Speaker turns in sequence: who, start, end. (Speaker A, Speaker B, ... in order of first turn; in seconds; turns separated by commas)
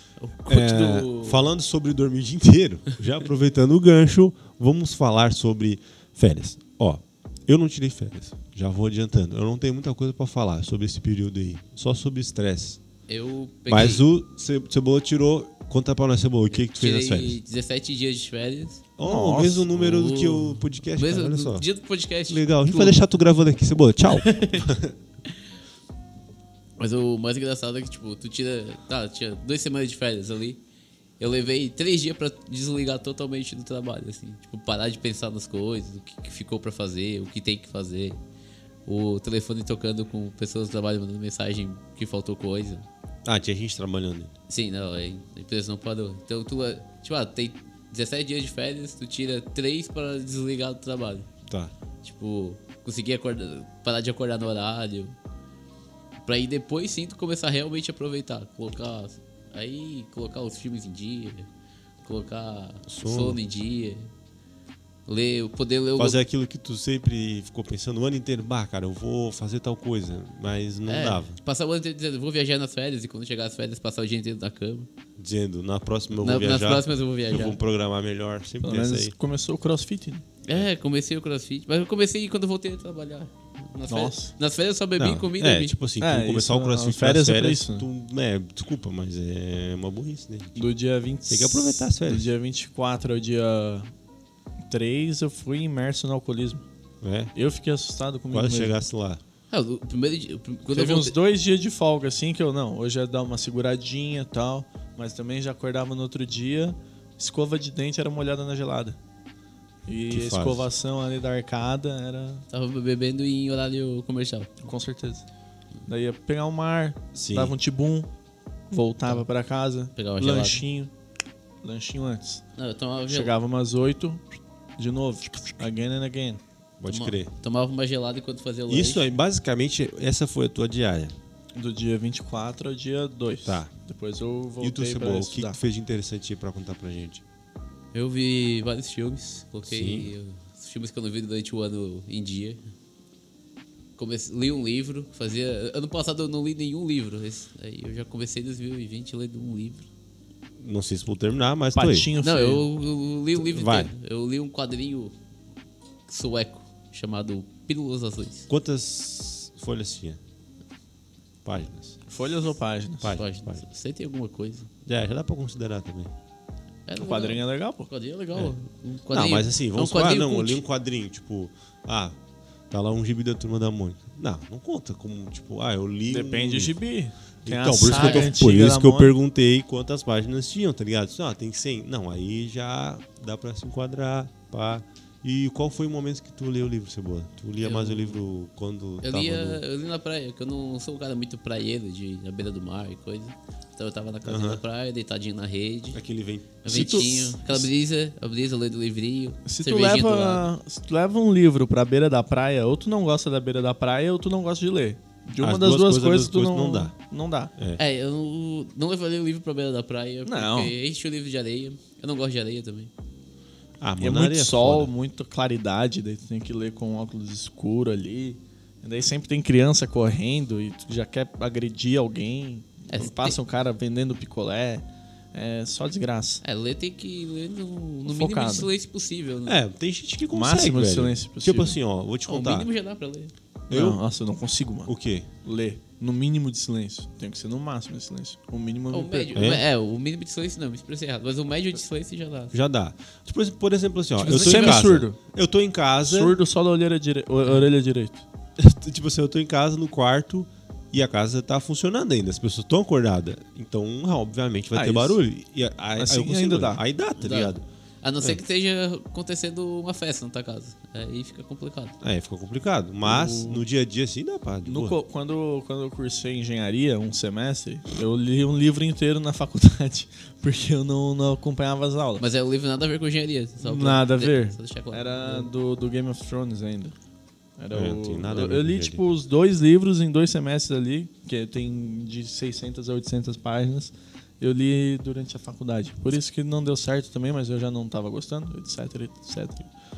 Speaker A: 0.2-1.5, Speaker B: 0.5-12.8, Speaker A: 13.1-14.0, Speaker B: 13.7-17.4, Speaker A: 16.5-18.9, Speaker B: 19.0-21.7, Speaker C: 19.0-19.7, Speaker A: 19.7-23.0, Speaker B: 22.3-24.9, Speaker A: 24.1-24.7, Speaker A: 26.8-30.6, Speaker A: 31.2-38.2, Speaker A: 38.9-42.9, Speaker B: 43.2-44.3, Speaker A: 44.5-51.3, Speaker A: 52.0-55.1, Speaker A: 56.2-61.5, Speaker A: 62.0-64.1, Speaker B: 62.9-63.4, Speaker A: 65.1-66.2, Speaker B: 66.0-71.4, Speaker A: 70.9-74.9, Speaker B: 75.2-79.1, Speaker A: 76.2-77.6, Speaker C: 78.6-80.2, Speaker A: 80.5-85.8, Speaker C: 83.9-84.3, Speaker B: 85.0-90.6, Speaker C: 86.0-87.9, Speaker C: 90.6-93.9, Speaker B: 91.3-92.3, Speaker C: 94.7-96.6, Speaker B: 97.0-97.3, Speaker C: 97.3-98.8, Speaker B: 98.3-99.2, Speaker A: 99.5-101.2, Speaker C: 100.7-109.0, Speaker C: 109.9-112.4, Speaker B: 110.1-110.7, Speaker A: 112.5-114.7, Speaker C: 114.6-115.2, Speaker C: 115.9-118.1, Speaker B: 117.2-117.5, Speaker C: 118.7-120.9, Speaker A: 120.0-120.6, Speaker C: 121.6-122.4, Speaker A: 122.6-123.3, Speaker C: 123.1-124.2, Speaker C: 124.8-126.4, Speaker B: 126.8-127.3, Speaker A: 126.9-129.1, Speaker B: 128.7-131.2, Speaker C: 131.6-135.6, Speaker B: 133.4-133.7, Speaker B: 134.6-137.2, Speaker A: 137.9-142.6, Speaker B: 139.7-140.1, Speaker A: 144.0-149.9, Speaker B: 150.6-152.1, Speaker C: 151.8-152.7, Speaker A: 152.2-155.2, Speaker B: 153.3-153.9, Speaker A: 156.1-158.5, Speaker B: 158.5-160.2, Speaker B: 161.4-162.0, Speaker C: 162.1-163.2, Speaker B: 163.0-163.6, Speaker A: 163.1-164.7, Speaker B: 164.8-166.1, Speaker A: 166.9-170.6, Speaker C: 167.0-167.9, Speaker B: 169.1-172.2, Speaker B: 172.7-176.8, Speaker C: 176.1-179.2, Speaker B: 177.4-189.6, Speaker A: 177.9-178.3, Speaker A: 187.6-188.2, Speaker A: 189.0-196.0, Speaker B: 194.2-194.6, Speaker B: 195.9-197.7, Speaker A: 196.6-200.5, Speaker C: 196.7-197.2, Speaker C: 199.5-207.5, Speaker B: 205.4-206.9, Speaker A: 207.8-212.9, Speaker C: 210.3-210.7, Speaker B: 213.8-214.9, Speaker C: 214.0-226.4, Speaker A: 222.9-223.4, Speaker A: 226.4-229.6, Speaker C: 228.1-228.7, Speaker B: 229.5-232.7, Speaker C: 230.3-231.8, Speaker A: 232.3-233.3, Speaker C: 233.7-239.5, Speaker B: 233.7-234.0, Speaker B: 234.9-235.3, Speaker A: 238.9-242.6, Speaker B: 239.3-239.6, Speaker B: 242.5-246.4, Speaker A: 244.2-245.0, Speaker C: 244.2-245.2, Speaker C: 246.0-248.2, Speaker B: 248.6-257.6, Speaker C: 254.7-255.2, Speaker C: 256.0-256.8, Speaker A: 257.2-262.0, Speaker B: 262.0-265.0, Speaker C: 263.0-263.6, Speaker C: 264.6-272.2, Speaker A: 272.2-275.5, Speaker C: 273.6-276.9, Speaker C: 277.6-289.7, Speaker B: 277.7-279.0